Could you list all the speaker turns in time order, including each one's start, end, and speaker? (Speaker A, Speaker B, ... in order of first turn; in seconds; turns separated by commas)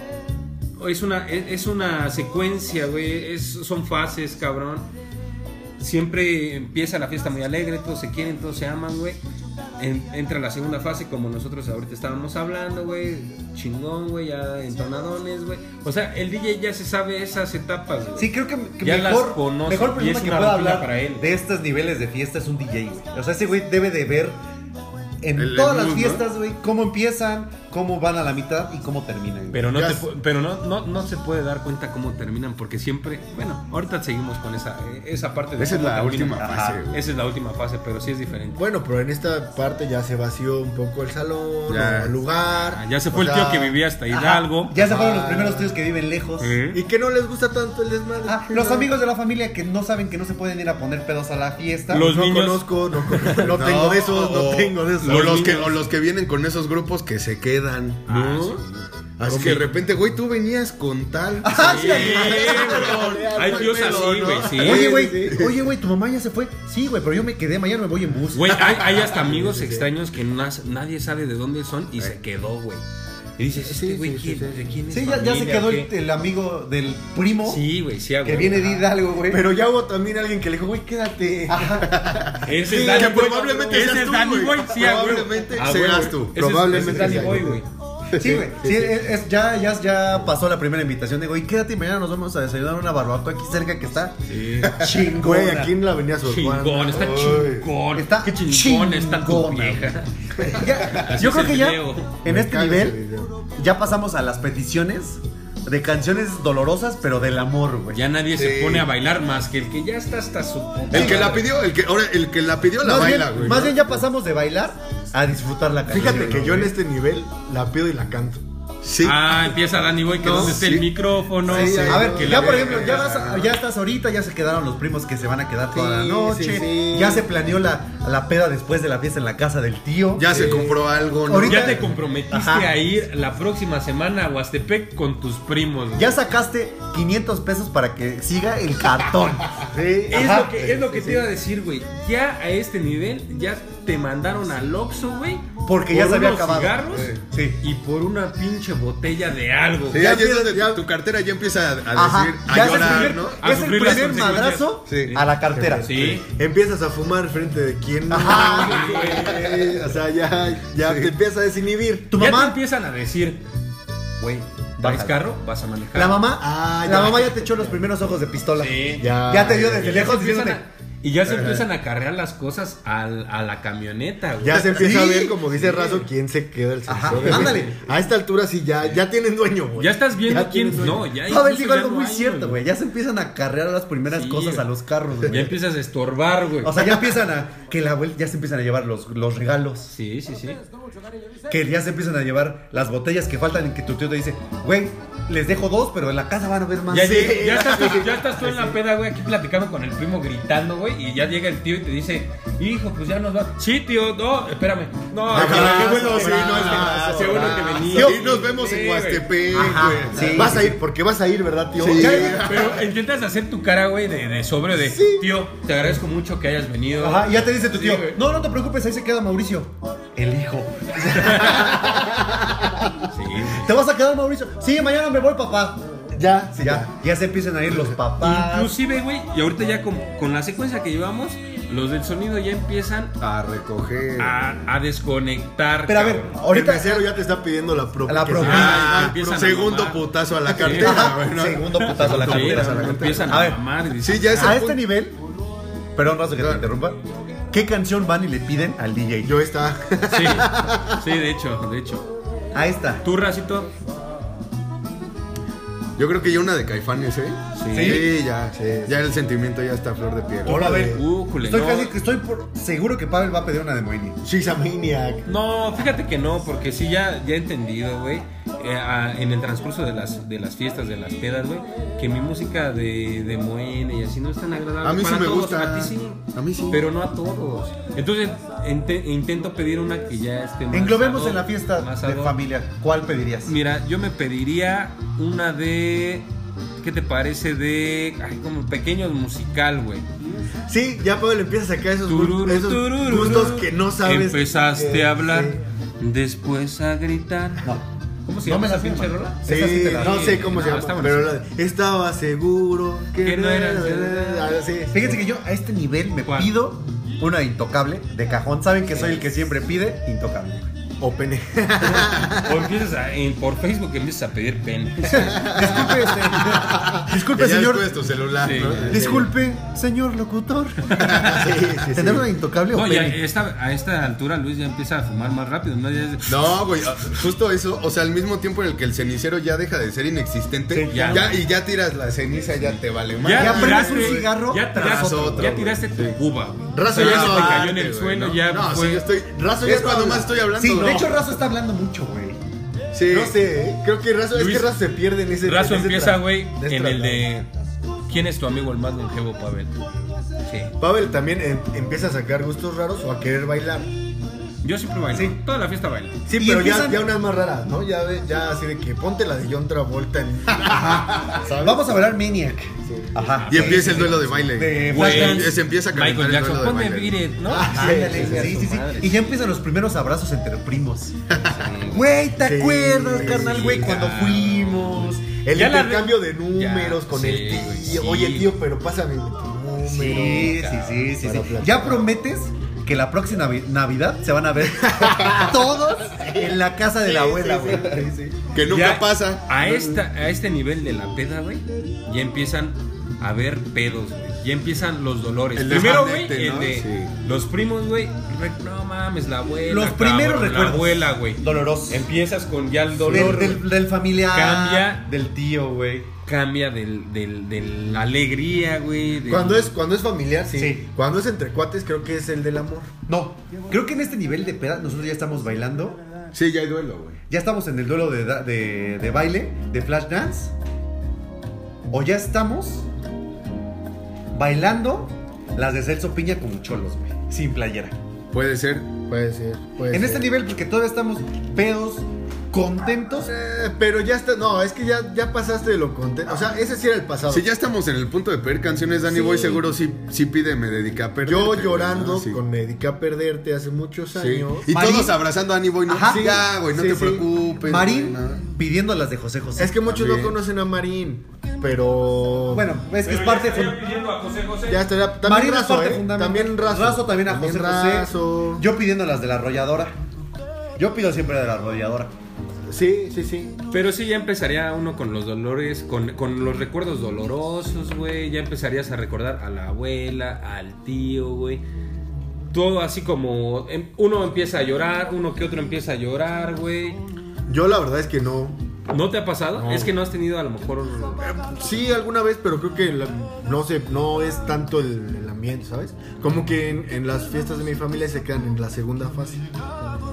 Speaker A: 0.8-4.9, Speaker A: 5.8-9.2, Speaker A: 9.8-18.3, Speaker B: 18.2-24.4, Speaker A: 18.8-21.3, Speaker B: 25.2-29.7, Speaker C: 25.3-26.2, Speaker A: 29.5-38.6, Speaker D: 29.7-30.1, Speaker C: 35.6-37.0, Speaker B: 36.4-36.8, Speaker D: 38.5-43.7, Speaker C: 41.7-42.1, Speaker A: 42.6-44.8, Speaker B: 44.1-46.5, Speaker D: 44.9-45.7, Speaker A: 46.4-46.8, Speaker D: 46.7-48.9, Speaker B: 48.3-52.1, Speaker A: 51.9-53.5, Speaker D: 51.9-55.7, Speaker C: 53.5-58.6, Speaker A: 55.0-55.6, Speaker A: 58.0-59.6, Speaker D: 59.2-59.6, Speaker C: 59.2-65.5, Speaker B: 61.4-62.8, Speaker A: 61.5-64.9, Speaker D: 61.9-65.5, Speaker B: 64.6-68.7, Speaker A: 68.3-72.8, Speaker D: 68.8-69.9, Speaker A: 73.4-75.9, Speaker D: 73.6-74.6, Speaker B: 74.9-77.7, Speaker A: 77.5-78.9, Speaker B: 78.2-79.5, Speaker D: 79.3-83.8, Speaker B: 81.5-81.9, Speaker C: 81.9-86.9, Speaker A: 82.4-87.7, Speaker D: 86.3-87.6, Speaker B: 87.0-87.4, Speaker C: 88.1-88.7, Speaker B: 88.2-94.2, Speaker A: 94.3-94.8, Speaker B: 94.7-95.8, Speaker D: 95.1-97.4, Speaker A: 96.2-102.2, Speaker C: 97.0-97.7, Speaker B: 97.9-99.9, Speaker B: 100.5-103.0, Speaker D: 102.2-103.3, Speaker B: 103.5-108.0, Speaker A: 107.9-111.5, Speaker C: 108.3-108.9, Speaker C: 110.9-113.8, Speaker B: 110.9-111.3, Speaker B: 112.8-116.7, Speaker D: 115.9-118.4, Speaker C: 118.8-119.5, Speaker A: 119.0-123.0, Speaker D: 120.2-120.5, Speaker C: 120.2-120.9, Speaker C: 121.4-123.5, Speaker D: 121.4-122.7, Speaker B: 121.7-130.6, Speaker D: 125.7-127.3, Speaker C: 130.2-131.8, Speaker D: 130.2-130.8, Speaker B: 131.2-132.8, Speaker A: 131.4-136.1, Speaker B: 135.9-140.6, Speaker D: 139.7-141.2, Speaker A: 140.1-150.1, Speaker B: 145.6-147.6, Speaker C: 146.9-147.2, Speaker C: 149.9-155.1, Speaker D: 149.9-150.8, Speaker B: 151.9-156.1, Speaker A: 152.6-156.2, Speaker D: 155.5-162.2, Speaker B: 158.1-159.0, Speaker A: 158.3-159.4, Speaker C: 160.8-161.1, Speaker B: 162.1-162.6, Speaker A: 162.2-163.4, Speaker A: 164.2-166.2, Speaker B: 164.8-165.2, Speaker B: 165.9-170.6, Speaker D: 166.4-167.9, Speaker A: 168.6-174.8, Speaker D: 169.0-170.1, Speaker C: 171.2-171.6, Speaker D: 174.4-181.1, Speaker C: 174.6-175.3, Speaker B: 176.9-177.8, Speaker A: 177.1-177.7, Speaker A: 179.8-182.6, Speaker B: 181.1-185.6, Speaker A: 184.1-184.7, Speaker A: 185.3-186.8, Speaker B: 186.6-189.9, Speaker A: 189.9-190.6, Speaker B: 191.5-198.8, Speaker A: 196.9-209.3, Speaker D: 196.9-198.1, Speaker D: 205.3-207.8, Speaker C: 205.3-210.6, Speaker B: 205.3-208.3, Speaker B: 209.5-210.7, Speaker D: 210.3-212.5, Speaker C: 211.8-212.7, Speaker B: 212.0-212.5, Speaker A: 212.4-218.2, Speaker D: 214.8-215.3, Speaker B: 217.0-222.2, Speaker A: 221.1-221.7, Speaker A: 223.1-223.7, Speaker B: 223.5-225.9, Speaker D: 226.1-226.9, Speaker B: 226.6-228.8, Speaker D: 227.7-228.0, Speaker A: 228.2-233.1, Speaker C: 233.2-234.4, Speaker A: 234.2-236.4, Speaker B: 235.9-237.1, Speaker D: 236.5-238.9, Speaker B: 238.1-238.9, Speaker A: 238.4-240.0, Speaker C: 238.4-243.4, Speaker B: 240.5-243.6, Speaker A: 240.6-241.1, Speaker A: 241.8-244.6, Speaker C: 244.0-244.8, Speaker B: 244.4-245.2, Speaker B: 245.9-247.0, Speaker C: 246.3-246.7, Speaker B: 247.5-249.3, Speaker D: 249.2-251.0, Speaker A: 250.1-252.1, Speaker B: 252.5-253.0, Speaker A: 253.0-253.7, Speaker C: 256.0-260.9, Speaker A: 257.6-258.0, Speaker B: 257.7-258.1, Speaker D: 258.4-258.9, Speaker D: 260.4-261.0, Speaker B: 260.4-264.2, Speaker A: 260.9-261.9, Speaker D: 264.2-265.3, Speaker A: 265.3-282.4, Speaker C: 274.8-276.8, Speaker B: 280.7-283.6, Speaker A: 283.4-286.3, Speaker A: 286.8-290.1, Speaker D: 290.7-295.6, Speaker A: 292.1-297.7, Speaker A: 298.3-301.3, Speaker B: 298.4-300.5, Speaker D: 299.4-305.2, Speaker A: 303.2-304.6, Speaker B: 304.9-310.7, Speaker A: 306.2-306.5, Speaker A: 308.9-309.3, Speaker D: 311.0-312.6, Speaker A: 312.3-315.5, Speaker D: 315.1-317.0, Speaker B: 315.3-317.9, Speaker C: 317.1-319.3, Speaker A: 318.4-319.0, Speaker B: 318.9-323.2, Speaker D: 318.9-319.2, Speaker A: 321.0-321.3, Speaker D: 321.2-322.3, Speaker A: 322.7-326.6, Speaker C: 326.3-334.2, Speaker B: 330.8-331.2, Speaker A: 330.9-331.4, Speaker A: 333.2-339.1, Speaker B: 333.3-335.7, Speaker C: 334.7-336.2, Speaker D: 336.7-337.8, Speaker C: 336.9-341.2, Speaker D: 339.3-341.1, Speaker B: 339.7-342.4, Speaker C: 342.9-343.3, Speaker D: 343.1-347.3, Speaker A: 344.3-344.7, Speaker A: 345.4-347.5, Speaker A: 348.1-349.7, Speaker A: 350.5-350.7, Speaker D: 350.8-353.9, Speaker A: 354.6-356.2, Speaker B: 355.1-355.4, Speaker D: 356.3-362.2, Speaker B: 356.3-357.1, Speaker B: 361.6-365.6, Speaker D: 362.8-363.2, Speaker A: 363.4-364.1, Speaker C: 363.5-367.2, Speaker A: 364.9-369.4, Speaker D: 367.4-368.6, Speaker B: 367.6-371.1, Speaker A: 371.5-372.1, Speaker B: 371.9-375.3, Speaker D: 372.4-373.9, Speaker A: 373.2-378.6, Speaker D: 375.4-382.1, Speaker B: 379.8-388.1, Speaker D: 384.7-388.3, Speaker C: 388.5-389.6, Speaker A: 388.7-403.7, Speaker C: 395.6-397.1, Speaker B: 399.6-402.1, Speaker B: 403.0-406.1, Speaker A: 404.3-405.1, Speaker A: 406.3-409.7, Speaker D: 409.3-412.9, Speaker B: 410.5-410.8, Speaker B: 413.1-416.0, Speaker C: 416.3-417.2, Speaker B: 417.3-420.5, Speaker B: 421.9-422.9, Speaker B: 424.3-427.9, Speaker C: 428.3-428.9, Speaker D: 429.1-430.3, Speaker B: 429.9-433.3, Speaker D: 433.1-437.5, Speaker C: 437.3-442.4, Speaker B: 439.1-439.6, Speaker D: 441.2-444.7, Speaker C: 444.1-448.4, Speaker B: 444.7-445.2, Speaker B: 445.9-446.4, Speaker D: 446.1-447.3, Speaker B: 447.6-449.9, Speaker D: 449.6-452.7, Speaker C: 449.9-450.3, Speaker B: 452.5-453.8, Speaker A: 453.0-454.9, Speaker D: 454.7-458.6, Speaker B: 455.2-460.0, Speaker B: 460.8-462.1, Speaker D: 462.7-463.6, Speaker A: 463.7-471.6, Speaker A: 472.5-477.0, Speaker D: 477.5-478.6, Speaker A: 478.9-481.4, Speaker D: 479.5-479.9, Speaker D: 481.2-489.4